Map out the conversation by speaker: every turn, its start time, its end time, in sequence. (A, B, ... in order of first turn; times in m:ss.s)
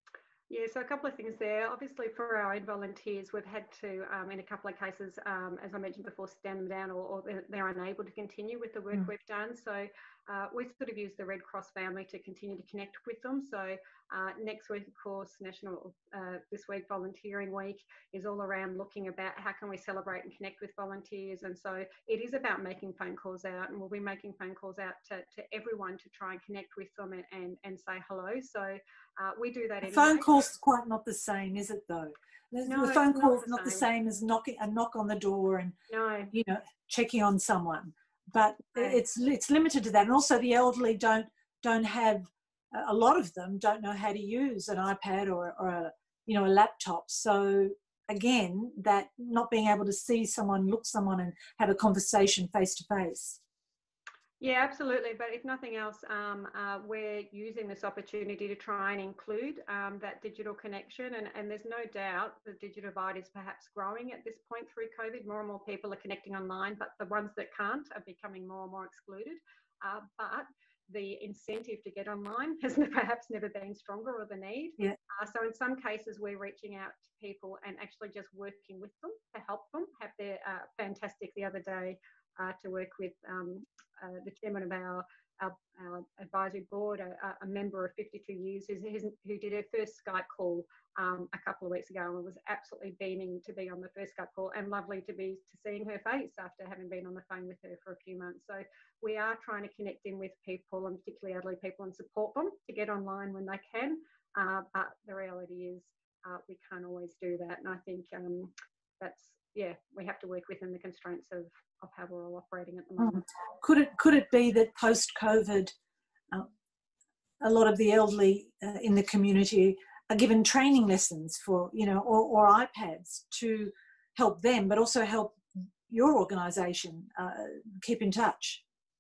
0:00.5-0:30.4 A
0:29.8-0:35.7 B
0:32.6-0:33.8 A
0:35.9-0:36.3 A
0:36.3-0:53.4 B
0:54.4-1:53.3 A
1:53.0-1:55.7 B
1:57.4-2:08.6 B